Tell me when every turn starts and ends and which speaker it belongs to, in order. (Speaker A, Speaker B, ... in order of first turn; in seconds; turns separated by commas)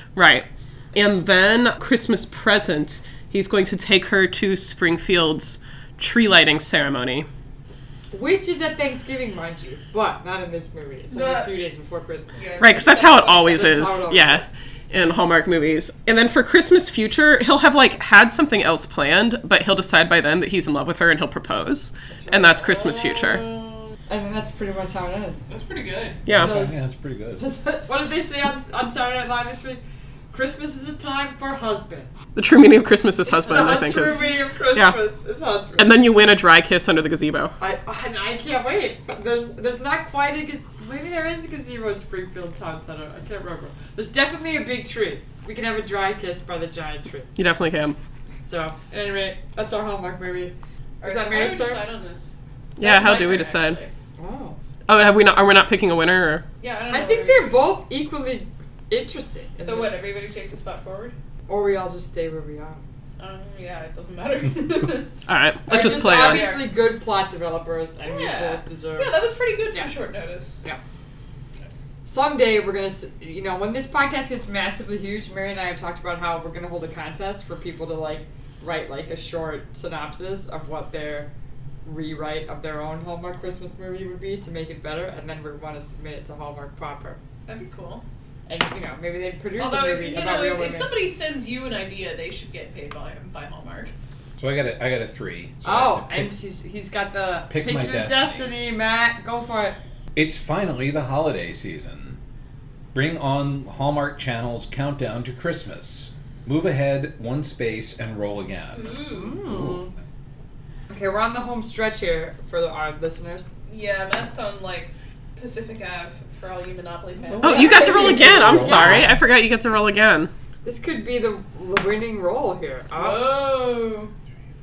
Speaker A: 0.1-7.3, Speaker B: 8.1-12.4, Speaker C: 11.1-11.5, Speaker C: 12.4-13.9, Speaker A: 12.6-23.4, Speaker B: 13.3-14.5, Speaker B: 22.1-22.7, Speaker C: 22.7-23.9, Speaker B: 24.1-25.5, Speaker C: 25.5-26.2, Speaker A: 26.2-26.6, Speaker D: 26.3-27.4, Speaker B: 26.4-26.8, Speaker B: 27.4-32.1, Speaker A: 32.3-35.0, Speaker C: 33.3-34.1, Speaker B: 33.4-35.9, Speaker A: 35.8-37.5, Speaker B: 37.6-47.3, Speaker A: 47.4-48.0, Speaker B: 48.4-51.9, Speaker C: 51.0-53.9, Speaker A: 52.8-53.8, Speaker B: 54.2-54.6, Speaker A: 54.9-56.5, Speaker C: 56.6-57.6, Speaker B: 56.9-59.9, Speaker C: 59.6-61.1, Speaker B: 61.5-62.8, Speaker C: 63.2-65.1, Speaker A: 65.3-66.5, Speaker C: 65.7-66.7, Speaker B: 65.7-69.2, Speaker C: 68.0-70.6, Speaker B: 72.0-81.3, Speaker B: 81.8-87.2, Speaker C: 87.5-88.0, Speaker B: 88.5-91.0, Speaker C: 89.6-93.9, Speaker D: 94.4-96.3, Speaker B: 95.6-99.8, Speaker D: 97.5-98.5, Speaker D: 100.1-102.2, Speaker D: 102.9-109.9, Speaker C: 108.7-109.6, Speaker B: 109.1-109.9, Speaker B: 110.9-113.5, Speaker C: 113.7-119.0, Speaker B: 117.3-119.2, Speaker A: 117.4-120.3, Speaker D: 117.5-119.1, Speaker B: 120.6-123.3, Speaker C: 123.0-124.1